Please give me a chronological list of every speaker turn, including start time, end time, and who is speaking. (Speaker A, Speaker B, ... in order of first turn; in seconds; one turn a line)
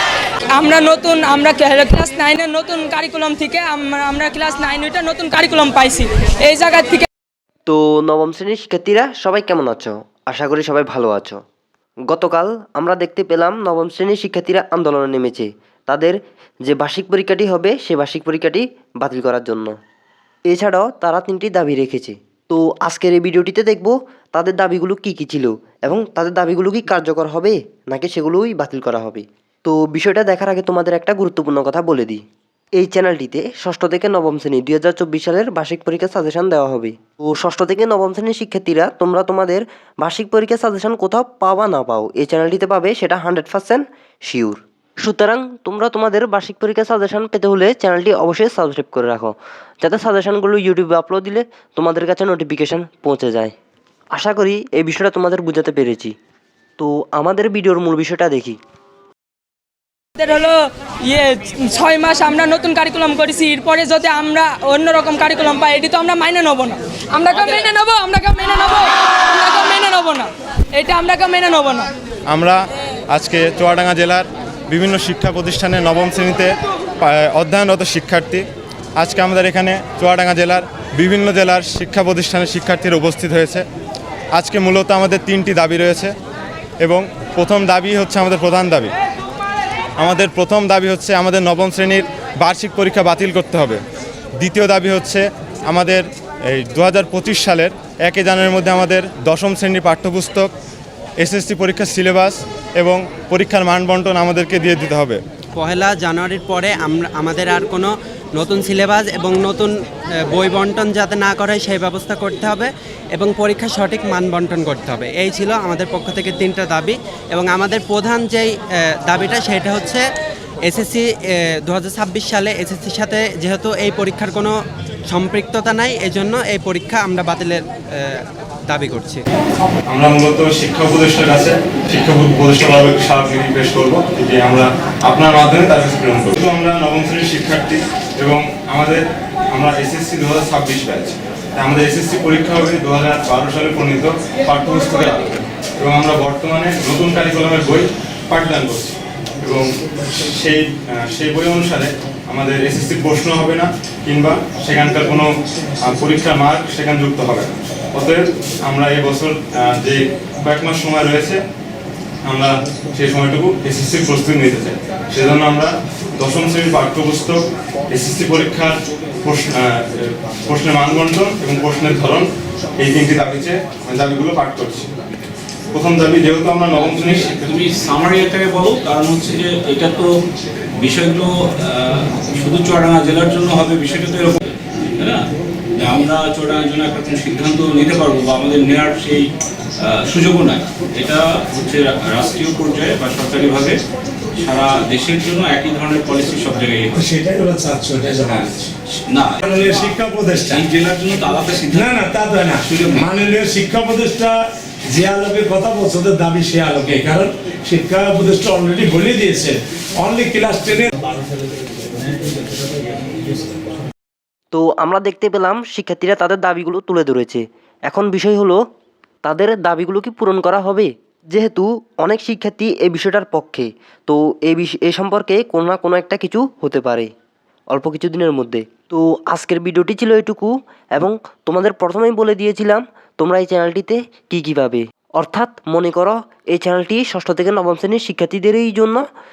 Speaker A: 0.5-7.1
Speaker B: 7.7-11.4
Speaker B: 12.1-19.8
Speaker B: 20.5-32.2
Speaker B: 32.8-53.5
Speaker B: 54.2-56.1
Speaker B: 56.8-58.6
Speaker A: 60.2-71.9
Speaker C: 72.3-78.5
Speaker C: 79.0-83.7
Speaker C: 84.3-86.1
Speaker C: 86.8-88.9
Speaker C: 90.0-93.8
Speaker C: 94.4-100.5
Speaker C: 101.2-105.2
Speaker D: 105.6-120.0
Speaker D: 120.7-124.6
Speaker D: 125.1-129.2
Speaker C: 129.9-155.3
Speaker C: 155.8-161.4
Speaker C: 162.3-167.4
Speaker C: 167.9-174.9
Speaker C: 175.7-177.4
Speaker E: 176.8-180.1
Speaker E: 180.8-193.8
Speaker E: 194.4-197.0
Speaker F: 196.9-198.8
Speaker E: 199.1-199.5
Speaker F: 199.4-200.6
Speaker E: 200.5-202.0
Speaker F: 201.7-210.9
Speaker E: 202.6-203.1
Speaker B: 214.5-218.6
Speaker B: 219.2-227.1
Speaker B: 227.7-239.0